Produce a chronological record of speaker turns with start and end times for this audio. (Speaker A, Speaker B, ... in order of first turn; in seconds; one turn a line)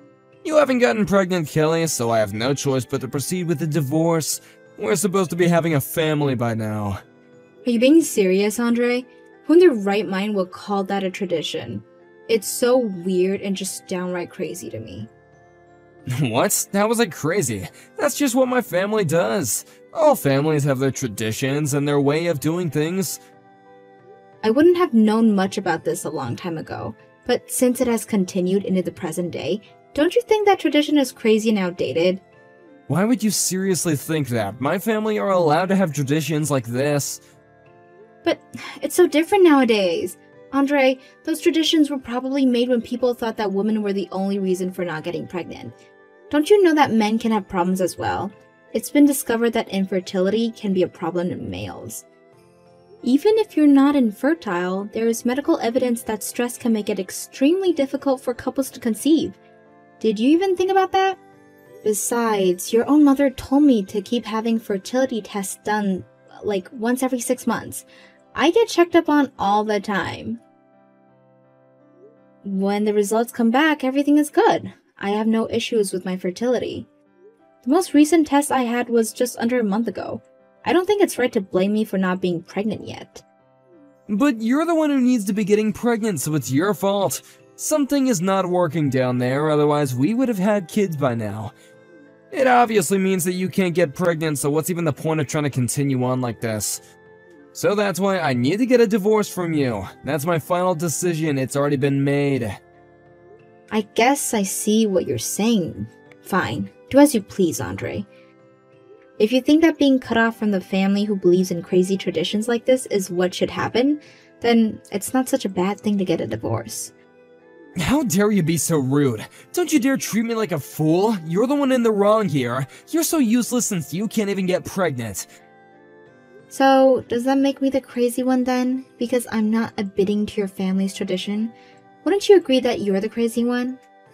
Speaker A: 0.4-7.0
Speaker B: 7.7-15.1
Speaker A: 16.1-23.2
Speaker B: 24.4-32.2
Speaker A: 32.9-37.2
Speaker B: 38.2-45.7
Speaker B: 46.3-52.0
Speaker B: 53.0-59.4
Speaker B: 60.0-61.2
Speaker B: 61.8-70.4
Speaker B: 72.4-76.9
Speaker B: 77.6-83.2
Speaker A: 84.1-91.5
Speaker A: 92.3-96.8
Speaker A: 97.5-102.6
Speaker B: 103.7-108.1
Speaker B: 109.2-116.9
Speaker A: 117.8-125.2
Speaker B: 126.5-133.8